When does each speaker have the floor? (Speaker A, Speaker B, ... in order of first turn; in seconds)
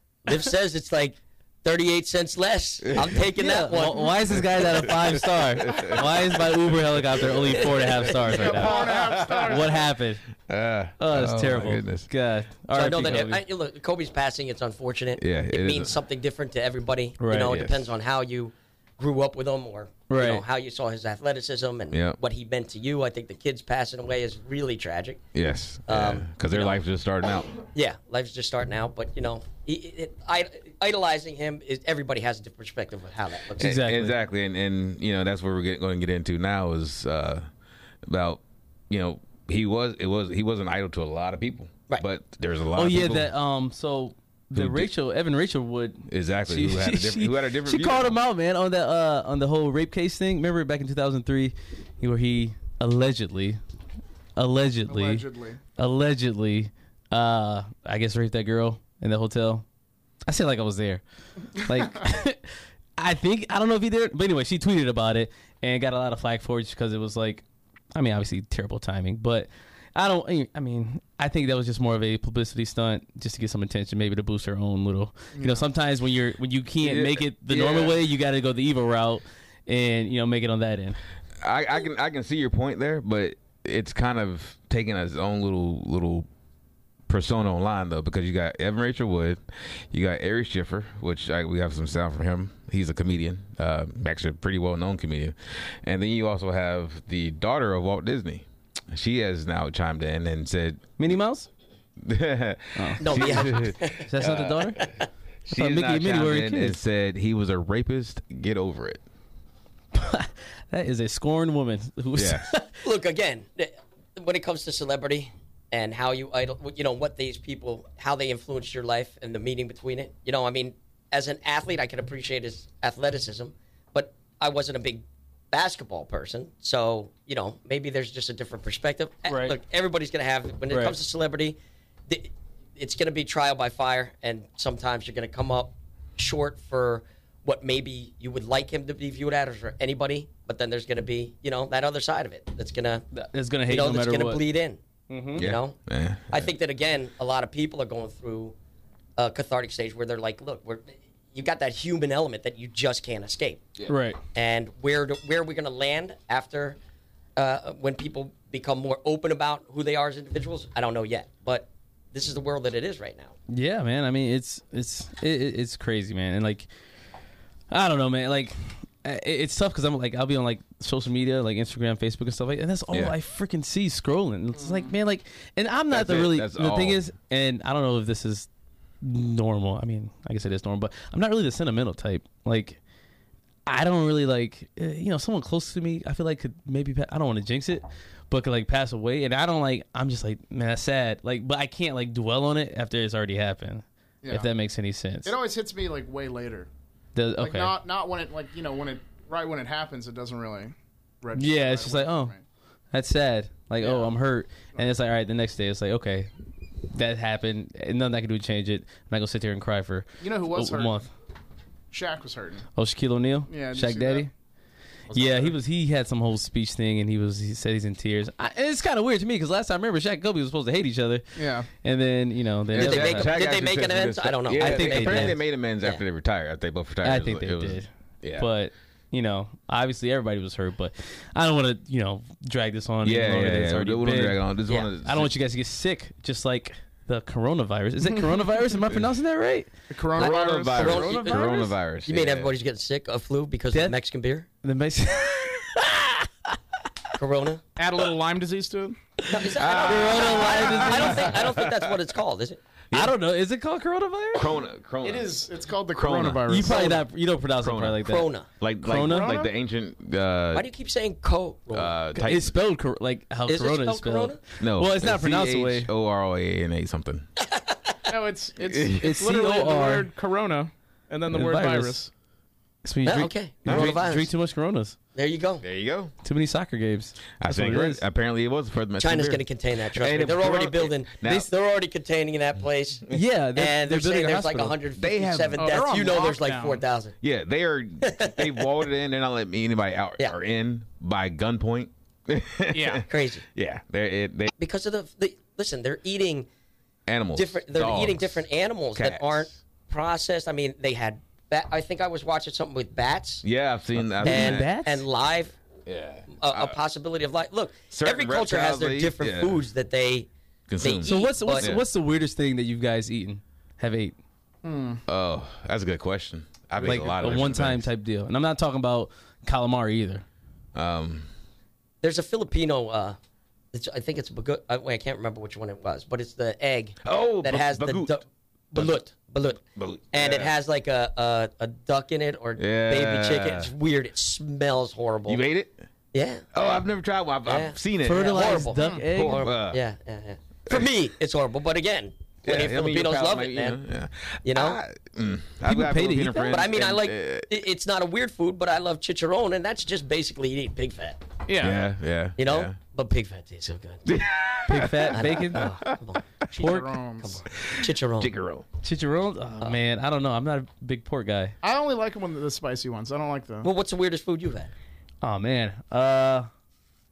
Speaker A: 0.3-4.2, 12.7-25.2, 25.9-26.8, 27.6-33.8, 103.0-104.1, 112.8-131.6, 132.1-143.0, 143.7-144.8, 145.3-145.8, 146.3-148.6, 149.2-153.7, 154.3-156.8, 157.4-163.3, 222.8-226.0, 240.2-244.5, 247.2-247.6, 249.3-252.6, 258.1-258.5, 260.5-262.1, 263.5-264.4, 267.4-268.1, 273.1-274.3, 275.1-275.6, 279.0-287.1, 288.0-288.6, 293.1-293.4, 294.6-296.5, 297.4-303.4, 304.2-305.6, 306.3-310.3, 310.8-311.7, 322.0-323.2, 323.7-335.4, 336.1-336.4, 337.5-343.8, 344.5-344.8, 346.5-351.2, 352.4-354.1, 355.1-358.3, 363.6-364.7
Speaker B: 2.8-3.2, 4.3-6.3, 8.3-9.8, 10.5-12.1, 15.2-15.9, 17.4-17.9, 21.9-22.2, 25.3-27.5, 33.6-37.5, 38.1-43.3, 44.5-44.9, 46.1-48.1, 76.8-78.0, 81.4-86.3, 87.1-100.9, 102.0-104.9, 105.5-109.0, 112.2-112.5, 145.4-146.5, 175.9-177.0, 222.7-228.5, 233.0-235.3, 240.2-242.5, 249.5-251.9, 252.9-253.2, 254.4-255.4, 255.9-256.9, 257.6-260.7, 261.7-262.5, 264.6-267.3, 268.6-269.0, 273.7-274.0, 275.6-276.1, 277.4-281.5, 285.0-285.6, 287.2-294.5, 297.1-298.4, 298.9-299.5, 303.4-304.7, 305.9-306.8, 307.9-309.6, 310.7-311.8, 315.1-317.9, 320.8-321.3, 327.1-328.1, 328.7-329.0, 329.8-330.5, 332.6-333.7, 335.3-335.8, 336.5-339.8, 342.4-347.5, 351.6-352.8, 354.1-356.0, 357.6-358.7
Speaker C: 3.4-10.2, 11.0-13.4, 17.2-17.6, 20.1-20.4, 33.6-34.2, 42.8-53.6, 54.4-55.3, 55.8-59.6, 60.3-81.0, 101.0-101.5, 102.8-104.8, 105.6-106.8, 109.9-112.8, 129.3-129.6, 130.7-131.0, 143.1-144.4, 145.1-145.4, 153.9-154.2, 163.5-166.7, 167.7-178.5, 179.0-182.8, 183.7-195.3, 197.2-197.8, 201.4-202.3, 202.9-206.3, 206.9-211.1, 212.8-214.3, 215.1-223.3, 224.6-225.4, 227.0-234.4, 235.0-239.7, 244.6-246.6, 249.8-251.3, 252.9-254.5, 256.5-258.3, 258.8-259.3, 262.2-265.9, 269.0-270.1, 271.3-272.1, 272.8-275.0, 276.2-278.0, 283.1-284.8, 304.2-305.1, 311.0-314.2, 316.8-320.2, 338.0-339.5, 345.6-346.6, 354.7-355.7, 356.6-356.9, 358.8-361.6, 365.2-366.5
Speaker D: 8.2-9.8, 54.9-55.6, 75.4-75.7, 174.6-174.9, 194.2-194.5, 195.3-196.7, 197.4-202.4, 203.8-204.1, 210.2-211.0, 211.9-212.7, 213.5-214.3, 215.1-215.6, 221.4-221.7, 239.9-241.6, 247.8-249.0, 255.0-257.0, 259.0-259.5, 268.1-272.1, 285.6-286.8, 292.7-293.1, 314.6-315.0, 338.8-339.0, 351.5-351.8, 356.6-357.4, 361.6-363.7